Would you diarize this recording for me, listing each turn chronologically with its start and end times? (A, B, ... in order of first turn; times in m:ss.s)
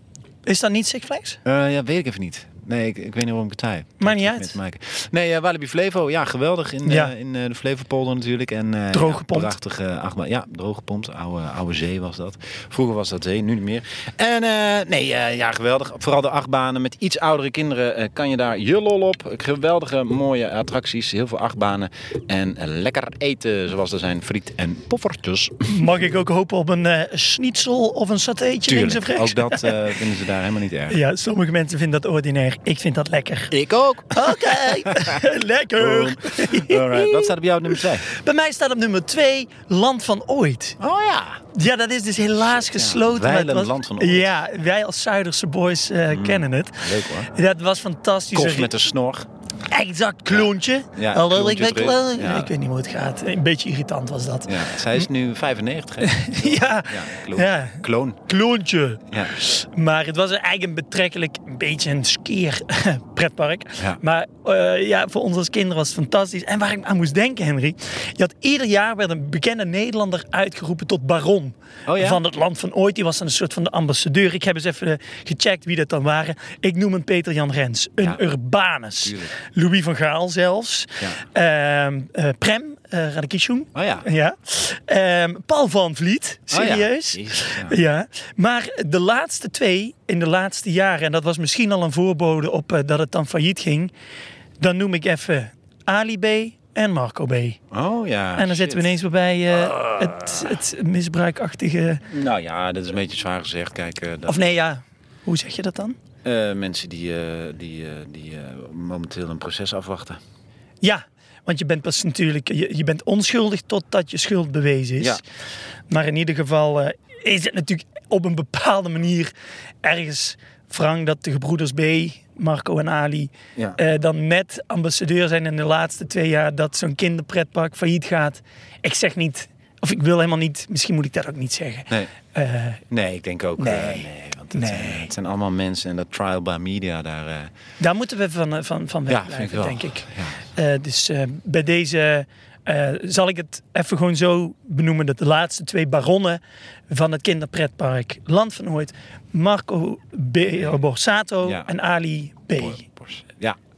0:00.4-0:01.4 A
0:01.4-0:25.8 B
0:04.0-0:04.5 A
0:06.8-0:07.1 A
0:08.9-0:09.5 A
0:25.7-0:29.8 A
0:28.7-0:31.0 B
0:30.9-0:33.5 A
0:33.5-0:38.1 B
0:34.1-0:40.8 A
0:40.8-0:41.4 B
0:41.5-0:48.8 A
0:42.4-0:44.4 B
0:46.1-0:47.3 B
0:48.3-0:49.3 B
0:49.7-0:55.0 A
0:50.3-0:52.5 B
0:54.4-0:58.2 B
0:56.0-1:33.9 A
1:11.9-1:12.2 B
1:19.0-1:19.3 B
1:23.7-1:24.1 B
1:26.5-1:27.8 B
1:34.6-1:37.6 A
1:37.7-1:39.0 B
1:38.4-1:42.0 A
1:39.5-1:40.6 B
1:42.1-1:44.5 B
1:44.2-1:46.0 A
1:46.2-1:50.2 B
1:50.8-1:55.2 A
1:55.9-2:12.8 A
2:12.9-2:17.5 B
2:13.6-2:15.1 A
2:17.8-2:32.8 A
2:19.1-2:20.4 B
2:31.4-2:31.7 B
2:32.6-2:33.6 B